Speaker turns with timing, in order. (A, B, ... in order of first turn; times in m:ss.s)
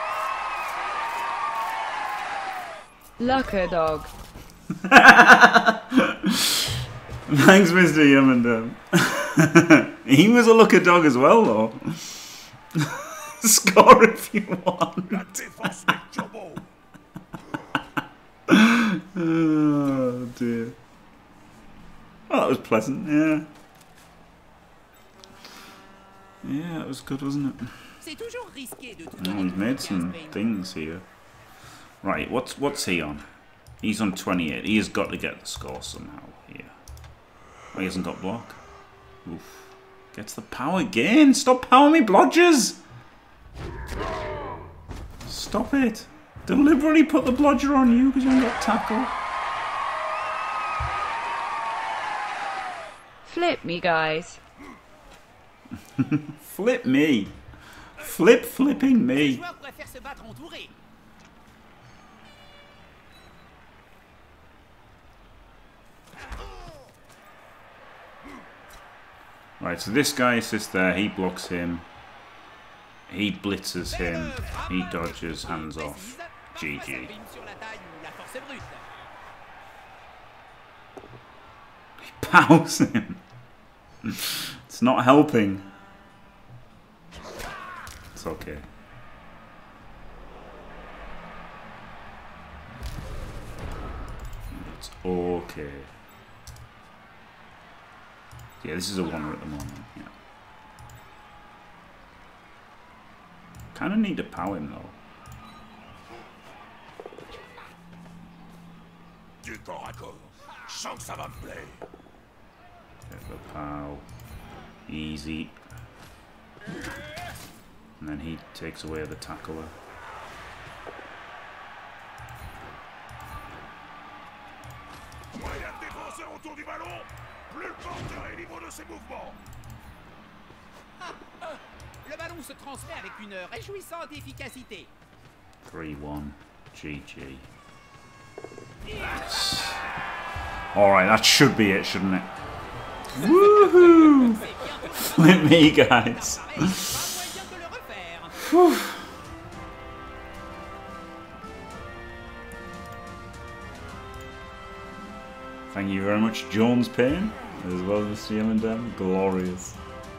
0:03.2-0:04.1 A
0:04.8-0:06.8 B
0:07.3-0:15.9 B
0:15.1-0:16.6 C
0:18.5-0:20.8 B
0:22.3-0:23.5 B
0:26.4-0:27.9 B
0:28.0-0:30.4 D
0:29.2-0:31.0 B
0:32.0-0:33.2 B
0:33.8-0:36.7 B
0:37.7-0:38.6 B
0:39.2-0:42.8 B
0:45.2-0:49.1 B
0:53.2-0:54.4 A
0:56.0-0:57.4 B
0:58.0-0:59.4 B
0:59.0-1:00.7 D
1:09.6-1:11.9 B
1:13.1-1:17.1 B
1:13.9-1:18.9 D
1:22.0-1:23.2 B
1:24.0-1:25.6 B
1:28.1-1:28.6 B
1:34.5-1:35.9 B
1:38.6-1:40.1 B
1:43.7-1:45.0 B
1:49.4-1:51.8 C
1:53.1-1:54.0 B
1:54.9-1:55.6 B
1:58.0-1:59.7 B
2:05.3-2:09.4 C
2:11.0-2:14.9 D
2:15.6-2:17.4 B
2:19.1-2:19.8 B
2:20.7-2:22.3 B
2:23.1-2:27.0 B
2:23.1-2:28.4 D
2:28.4-2:29.0 B
2:35.7-2:39.8 B